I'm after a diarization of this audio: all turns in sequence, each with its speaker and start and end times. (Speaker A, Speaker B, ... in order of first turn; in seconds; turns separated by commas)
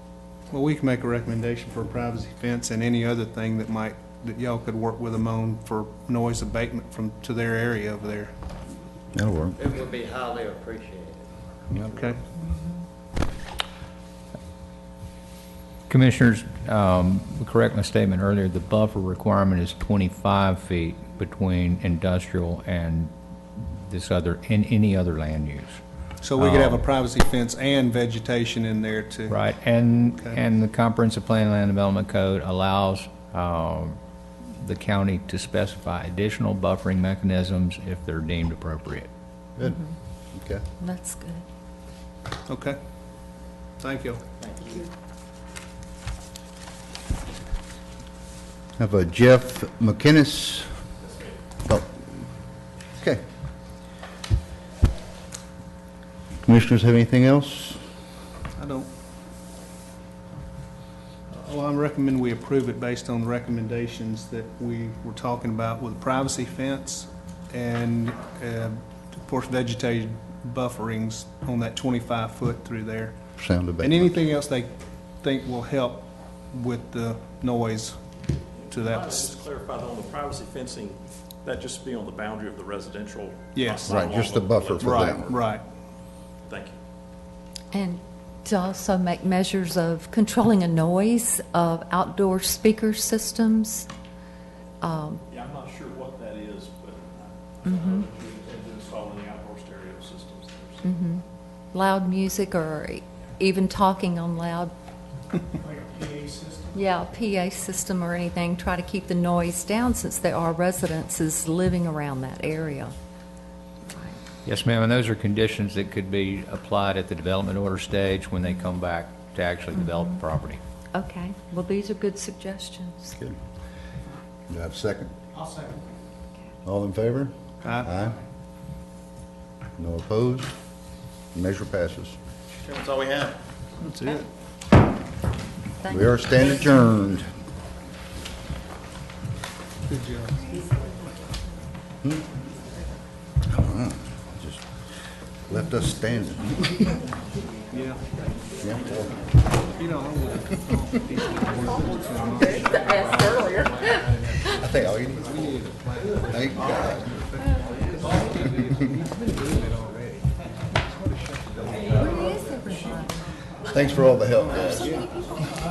Speaker A: 0.5-8.3, Speaker B: 9.2-9.6, Speaker C: 9.6-11.3, Speaker B: 11.7-12.0, Speaker A: 11.9-12.2, Speaker D: 15.9-25.8, Speaker A: 26.2-29.4, Speaker D: 26.4-26.8, Speaker D: 29.3-34.0, Speaker D: 34.5-39.1, Speaker B: 39.6-40.6, Speaker E: 40.8-41.4, Speaker A: 42.5-42.8, Speaker A: 43.8-44.2, Speaker C: 44.4-44.9, Speaker B: 48.8-50.7, Speaker F: 51.0-51.4, Speaker B: 51.6-52.1, Speaker B: 53.0-53.2, Speaker B: 56.5-57.8, Speaker A: 58.6-58.9, Speaker A: 61.3-73.2, Speaker B: 73.4-74.1, Speaker A: 73.8-78.0, Speaker F: 78.6-85.5, Speaker A: 78.7-79.3, Speaker A: 83.5-84.0, Speaker B: 83.9-85.3, Speaker A: 84.8-85.6, Speaker F: 86.5-86.8, Speaker E: 87.7-93.9, Speaker E: 94.8-95.2, Speaker F: 95.3-100.8, Speaker E: 97.6-98.0, Speaker E: 100.8-104.7, Speaker E: 106.7-112.9, Speaker E: 113.9-114.2, Speaker D: 114.5-120.6, Speaker E: 119.7-120.1, Speaker E: 120.9-123.1, Speaker B: 124.5-125.1, Speaker B: 126.7-128.2, Speaker A: 127.6-127.9, Speaker B: 129.8-130.5, Speaker B: 131.3-132.2, Speaker C: 132.6-133.3, Speaker A: 133.8-134.3, Speaker E: 135.8-136.7, Speaker B: 135.8-137.3, Speaker A: 139.9-140.6, Speaker B: 143.5-144.7, Speaker B: 145.5-147.0, Speaker A: 147.7-148.0, Speaker B: 148.6-149.2, Speaker A: 149.8-154.4, Speaker E: 152.7-154.0, Speaker B: 154.4-155.6, Speaker A: 155.3-160.2, Speaker B: 156.3-157.2, Speaker E: 161.9-163.2, Speaker B: 163.7-165.0, Speaker A: 164.8-165.0